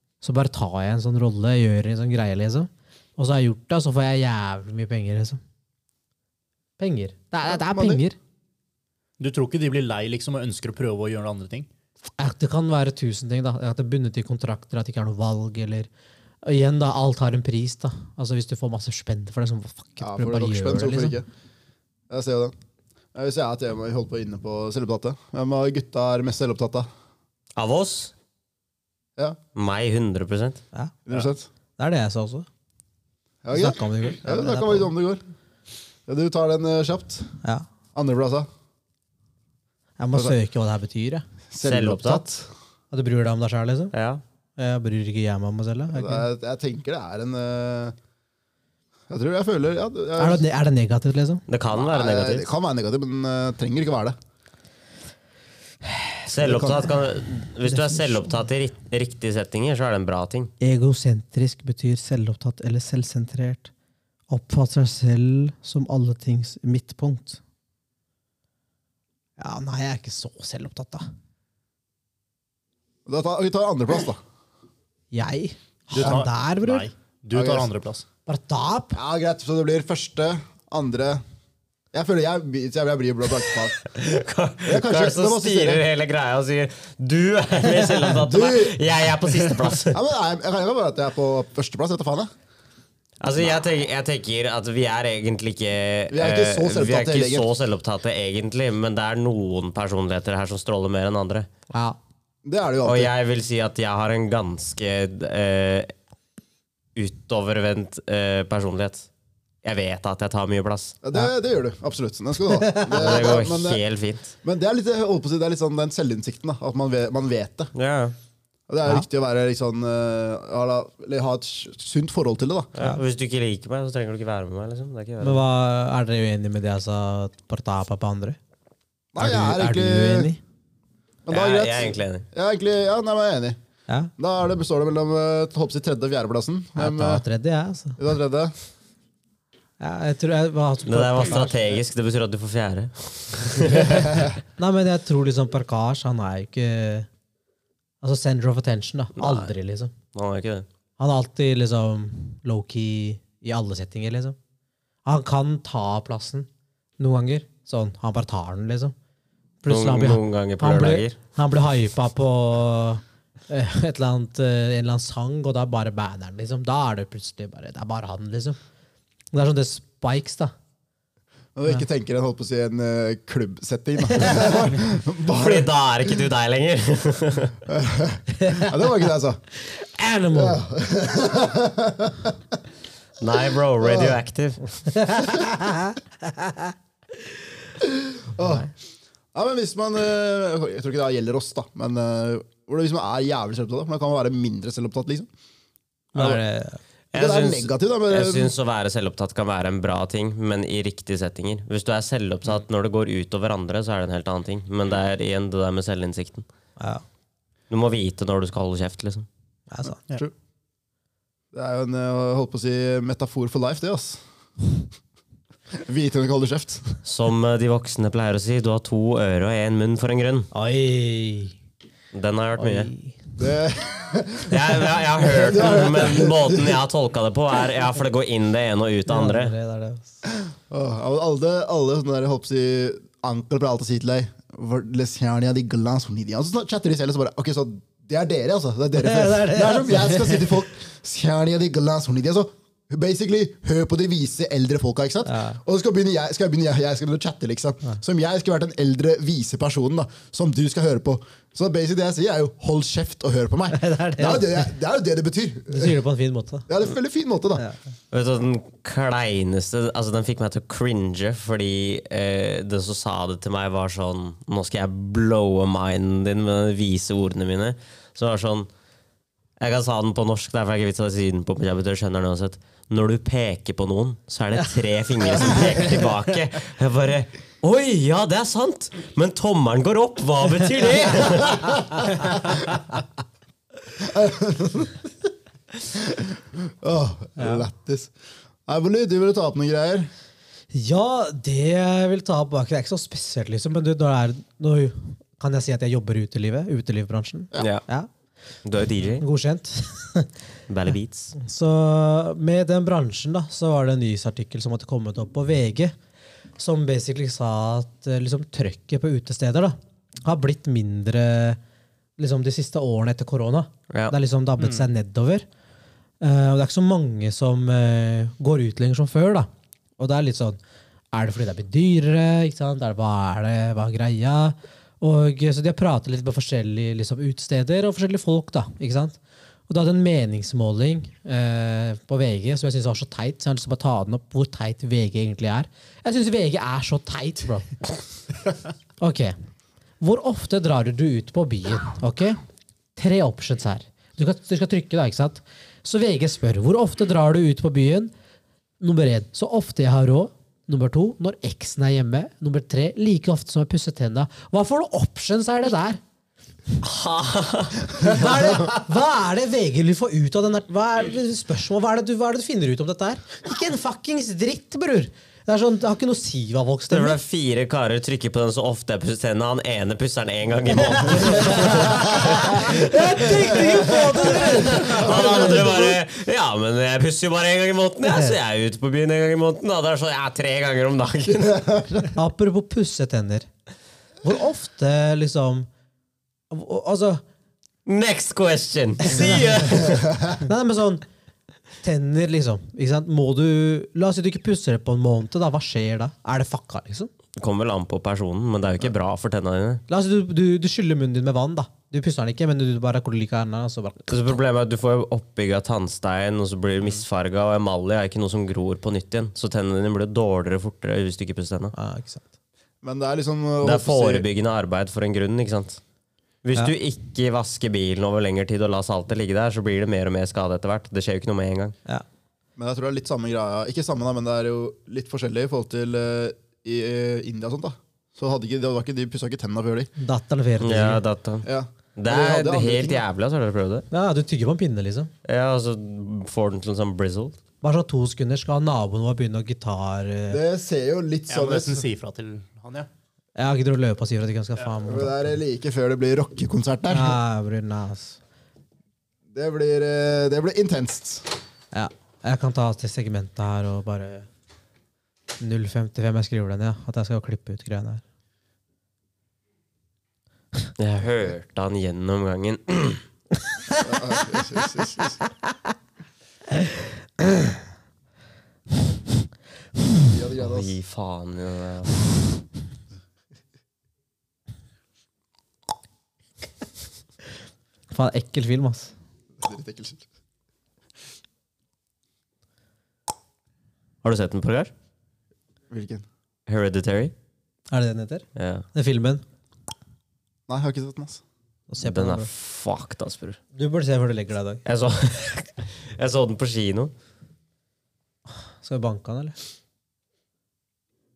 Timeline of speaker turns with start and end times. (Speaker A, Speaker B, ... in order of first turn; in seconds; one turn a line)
Speaker A: 0.2-5.4
Speaker A: 6.8-8.2
Speaker B: 7.4-8.0
Speaker C: 9.2-11.7
Speaker A: 12.2-15.9
Speaker A: 16.4-21.2
Speaker B: 20.0-21.2
Speaker B: 22.1-22.5
Speaker B: 23.1-26.9
Speaker D: 27.6-28.1
Speaker D: 29.5-30.6
Speaker B: 31.1-31.5
Speaker A: 31.8-32.5
Speaker B: 33.4-35.2
Speaker A: 33.5-34.9
Speaker B: 36.1-37.3
Speaker B: 37.9-38.5
Speaker A: 40.0-41.2
Speaker B: 41.5-42.4
Speaker D: 41.6-42.3
Speaker A: 42.9-43.9
Speaker D: 43.9-44.2
Speaker A: 44.6-46.3
Speaker B: 45.9-47.9
Speaker B: 49.1-50.4
Speaker A: 50.2-51.4
Speaker D: 51.5-52.5
Speaker B: 51.7-54.1
Speaker A: 56.0-56.9
Speaker D: 56.3-60.5
Speaker A: 57.6-58.3
Speaker A: 60.6-63.7
Speaker A: 64.3-67.4
Speaker A: 69.4-71.0
Speaker B: 73.0-74.2
Speaker A: 75.1-76.9
Speaker C: 75.9-78.0
Speaker B: 77.3-77.7
Speaker A: 78.2-79.0
Speaker B: 78.9-81.2
Speaker B: 81.9-83.8
Speaker D: 83.8-90.0
Speaker B: 84.6-85.8
Speaker B: 88.1-88.8
Speaker B: 89.8-92.3
Speaker D: 93.2-101.5
Speaker B: 96.1-97.5
Speaker A: 101.7-102.0
Speaker B: 102.4-103.1
Speaker D: 102.8-105.9
Speaker D: 106.9-109.1
Speaker D: 109.6-111.0
Speaker B: 111.0-113.8
Speaker A: 112.5-113.0
Speaker D: 112.9-114.3
Speaker B: 114.4-117.7
Speaker D: 117.7-118.1
Speaker B: 118.7-122.7
Speaker D: 122.7-125.4
Speaker A: 125.2-128.4
Speaker B: 129.1-130.3
Speaker A: 129.2-130.4
Speaker B: 131.2-133.6
Speaker D: 131.3-132.2
Speaker B: 134.2-137.2
Speaker A: 136.8-138.0
Speaker B: 138.0-138.5
Speaker A: 139.8-141.6
Speaker D: 140.9-144.3
Speaker A: 144.6-147.1
Speaker A: 148.0-149.9
Speaker D: 149.2-149.5
Speaker D: 150.1-150.7
Speaker A: 151.0-154.3
Speaker A: 155.1-156.5
Speaker A: 157.0-158.9
Speaker A: 159.6-168.6
Speaker D: 159.7-161.2
Speaker A: 169.3-170.5
Speaker B: 171.5-175.7
Speaker A: 174.1-174.6
Speaker D: 175.3-177.6
Speaker B: 177.7-179.4
Speaker A: 178.4-178.7
Speaker A: 179.6-180.6
Speaker B: 180.3-182.3
Speaker D: 183.2-184.8
Speaker B: 183.8-184.2
Speaker A: 184.9-186.7
Speaker B: 187.8-188.7
Speaker B: 189.3-195.3
Speaker B: 196.1-196.4
Speaker A: 196.1-196.8
Speaker D: 197.1-206.5
Speaker B: 197.1-198.5
Speaker A: 206.8-207.0
Speaker D: 207.7-209.3
Speaker A: 209.7-210.0
Speaker B: 211.5-214.2
Speaker B: 215.8-216.9
Speaker D: 217.0-220.5
Speaker A: 220.5-221.5
Speaker D: 222.1-222.9
Speaker A: 222.6-223.2
Speaker B: 223.4-226.8
Speaker D: 224.5-229.5
Speaker A: 229.1-230.1
Speaker B: 230.4-256.0
Speaker A: 239.0-240.6
Speaker A: 245.2-245.6
Speaker A: 253.7-254.7
Speaker A: 255.7-256.7
Speaker B: 256.7-257.6
Speaker D: 258.1-268.7
Speaker D: 269.6-282.1
Speaker B: 284.0-285.0
Speaker B: 285.9-288.1
Speaker A: 287.4-287.6
Speaker B: 288.7-290.1
Speaker A: 290.7-298.1
Speaker D: 297.6-297.8
Speaker D: 298.6-299.2
Speaker A: 299.2-300.3
Speaker D: 300.7-301.3
Speaker A: 301.4-305.9
Speaker A: 306.6-311.6
Speaker A: 312.2-315.4
Speaker D: 313.9-314.1
Speaker C: 314.6-314.9
Speaker A: 316.2-320.6
Speaker A: 321.1-337.7
Speaker A: 339.0-339.3
Speaker A: 340.0-342.4
Speaker A: 342.9-348.1
Speaker A: 348.8-356.0
Speaker D: 356.8-358.5
Speaker A: 358.0-367.2
Speaker D: 366.9-381.6
Speaker A: 370.9-375.8
Speaker B: 374.6-376.0
Speaker A: 378.1-378.3
Speaker B: 381.3-382.1
Speaker A: 382.1-383.5
Speaker A: 384.2-385.7
Speaker A: 386.5-387.2
Speaker D: 387.9-390.2
Speaker A: 389.0-391.0
Speaker A: 391.8-397.1
Speaker D: 397.4-399.8
Speaker A: 399.9-404.4
Speaker D: 404.1-411.7
Speaker A: 411.7-412.2
Speaker B: 412.8-414.2
Speaker D: 413.6-415.8
Speaker D: 416.4-421.7
Speaker B: 422.6-429.9
Speaker A: 430.0-431.0
Speaker D: 430.6-433.9
Speaker B: 431.4-433.0
Speaker A: 433.9-435.1
Speaker D: 435.2-437.4
Speaker A: 437.6-440.4
Speaker B: 440.3-441.8
Speaker C: 441.3-442.9
Speaker A: 443.4-445.3
Speaker B: 444.8-447.2
Speaker A: 446.9-448.2
Speaker B: 449.3-451.2
Speaker A: 451.7-454.3
Speaker A: 455.4-458.0
Speaker D: 460.8-463.0
Speaker B: 463.8-465.2
Speaker B: 470.0-470.7
Speaker D: 470.4-472.0
Speaker A: 477.9-478.9
Speaker B: 479.4-480.0
Speaker D: 484.0-484.7
Speaker B: 485.7-486.0
Speaker D: 486.5-487.1
Speaker A: 487.7-489.2
Speaker D: 488.4-488.6
Speaker B: 490.5-491.2
Speaker A: 491.7-492.3
Speaker D: 491.8-493.4
Speaker A: 493.5-494.6
Speaker D: 494.6-496.9
Speaker A: 498.6-499.4